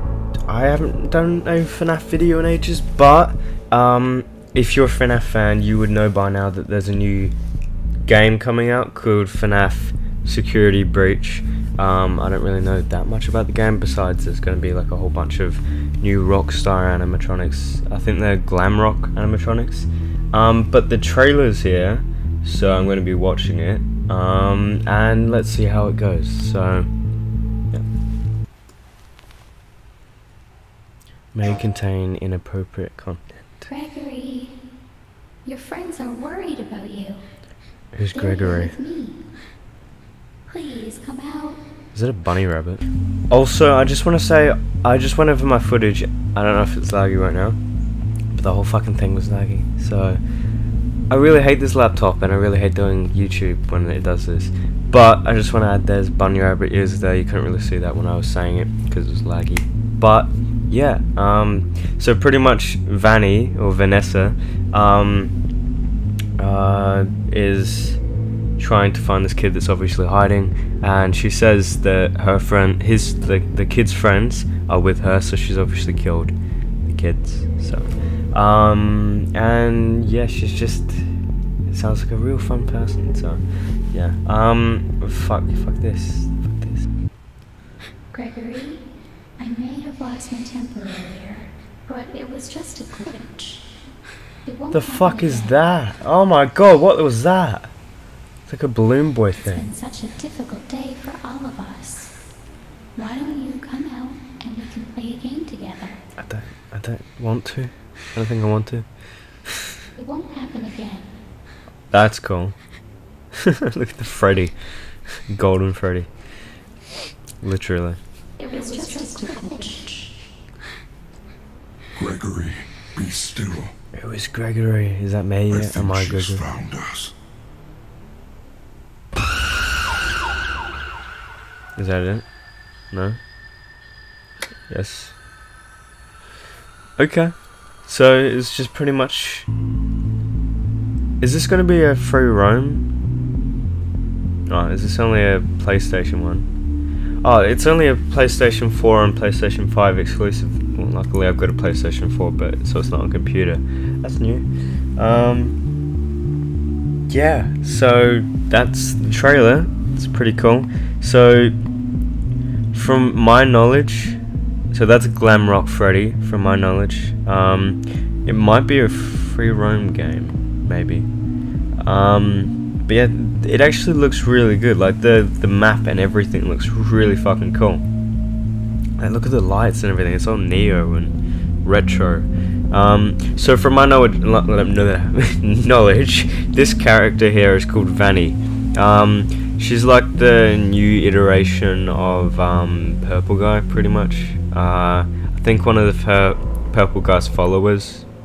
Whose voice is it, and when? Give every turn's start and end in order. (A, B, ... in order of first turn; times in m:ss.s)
0:00.5-0:07.3 A
0:08.1-0:26.9 A
0:31.4-0:33.3 A
0:33.7-0:34.6 B
0:35.4-0:37.2 B
0:37.9-0:38.8 A
0:38.1-0:39.2 B
0:40.5-0:41.6 B
0:41.9-0:47.6 A
0:48.3-0:50.2 A
0:51.1-1:05.4 A
1:06.4-1:08.0 A
1:08.6-1:21.1 A
1:21.7-1:26.8 A
1:28.1-1:28.8 B
1:29.4-1:33.6 B
1:34.4-1:35.5 B
1:34.7-1:37.7 A
1:38.5-1:39.7 A
1:39.4-1:42.2 B
1:43.0-1:46.0 B
1:46.2-1:48.9 A
1:50.0-1:51.1 B
1:51.9-1:52.6 A
1:53.5-1:54.6 A
1:55.3-1:56.1 A
1:57.4-1:58.0 A
1:58.4-2:00.1 B
2:02.0-2:03.7 C
2:03.9-2:06.4 A
2:05.5-2:07.1 C
2:11.8-2:12.3 A
2:12.9-2:13.2 A
2:14.7-2:15.2 A
2:17.0-2:19.5 A
2:21.2-2:22.9 A
2:24.5-2:26.5 A
2:27.2-2:35.6 A
2:37.1-2:41.5 A
2:42.7-2:44.2 A
2:44.7-2:51.1 A
2:51.8-2:57.8 A
2:59.0-3:18.1 A